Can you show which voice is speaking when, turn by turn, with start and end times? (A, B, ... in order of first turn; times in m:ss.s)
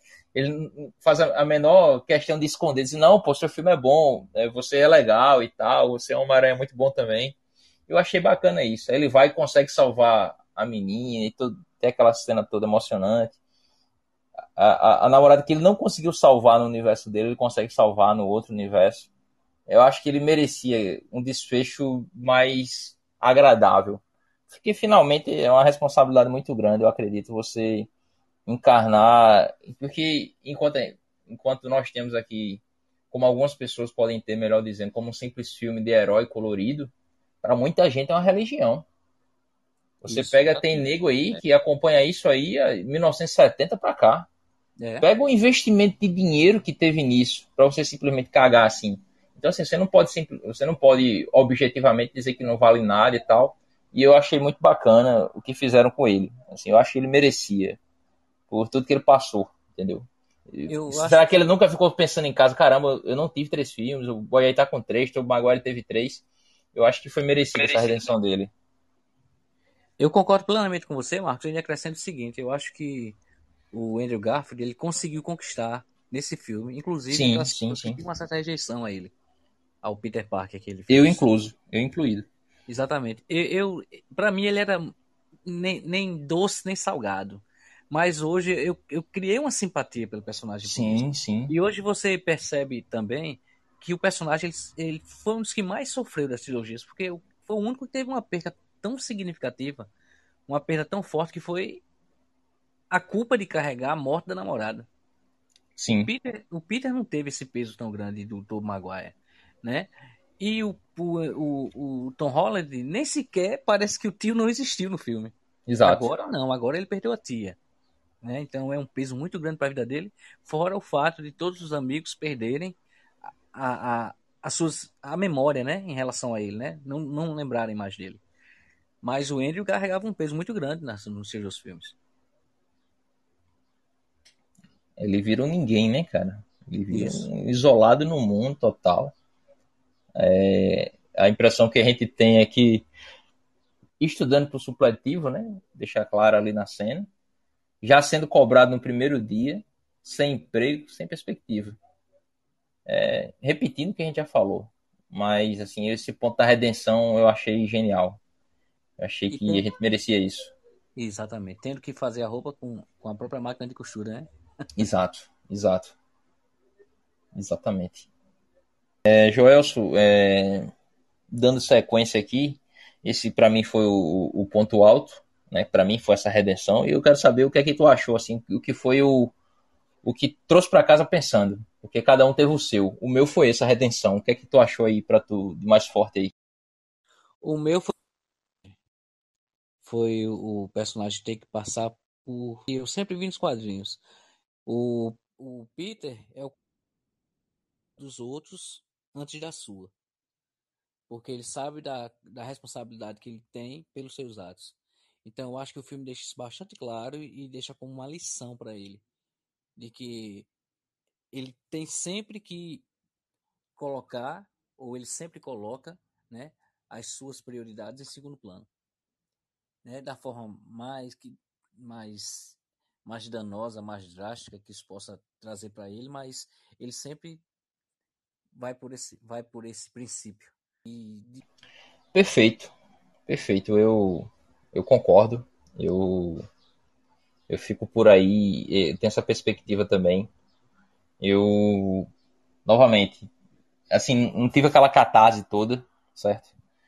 0:00.3-0:07.3 A
0:07.9-0:13.4 A
0:14.6-0:19.1 A
0:19.7-0:27.9 A
0:28.4-0:36.9 A
0:37.4-0:38.8 A
0:40.0-0:44.3 A
0:40.1-0:40.6 B
0:44.8-0:45.1 B
0:45.0-0:57.8 A
0:58.5-1:08.5 A
1:00.7-1:01.4 B
1:10.0-1:13.2 B
1:13.7-1:19.1 B
1:17.1-1:18.0 A
1:19.8-1:21.2 B
1:20.9-1:22.3 A
1:22.7-1:24.9 B
1:25.4-1:39.9 B
1:30.6-1:31.5 A
1:40.5-1:41.8 B
1:42.9-1:44.9 B
1:45.8-1:46.1 A
1:46.0-1:57.6 B
1:55.7-1:56.1 A
1:58.2-2:02.8 B
2:03.5-2:08.2 B
2:09.0-2:12.0 B
2:15.0-2:19.1 A
2:16.9-2:17.3 B
2:20.2-2:22.9 A
2:24.0-2:27.1 A
2:27.8-2:31.8 A
2:32.8-2:38.2 A
2:39.0-2:40.5 A
2:39.3-2:39.6 B
2:41.0-2:44.3 B
2:44.8-2:45.9 A
2:47.3-2:48.1 A
2:49.0-2:50.7 A
2:51.3-2:59.3 A
3:00.0-3:06.3 A
3:07.4-3:07.9 B
3:09.8-3:14.0 B
3:14.6-3:16.5 B
3:18.0-3:19.9 B
3:21.1-3:29.0 B
3:29.8-3:30.5 B
3:31.3-3:32.8 B
3:33.8-3:38.7 B
3:39.8-3:47.4 B
3:48.5-3:51.4 B
3:52.1-3:52.7 A
3:53.3-3:56.4 A
3:57.5-4:00.3 A
4:01.2-4:02.1 A
4:02.6-4:03.3 A
4:03.9-4:06.5 A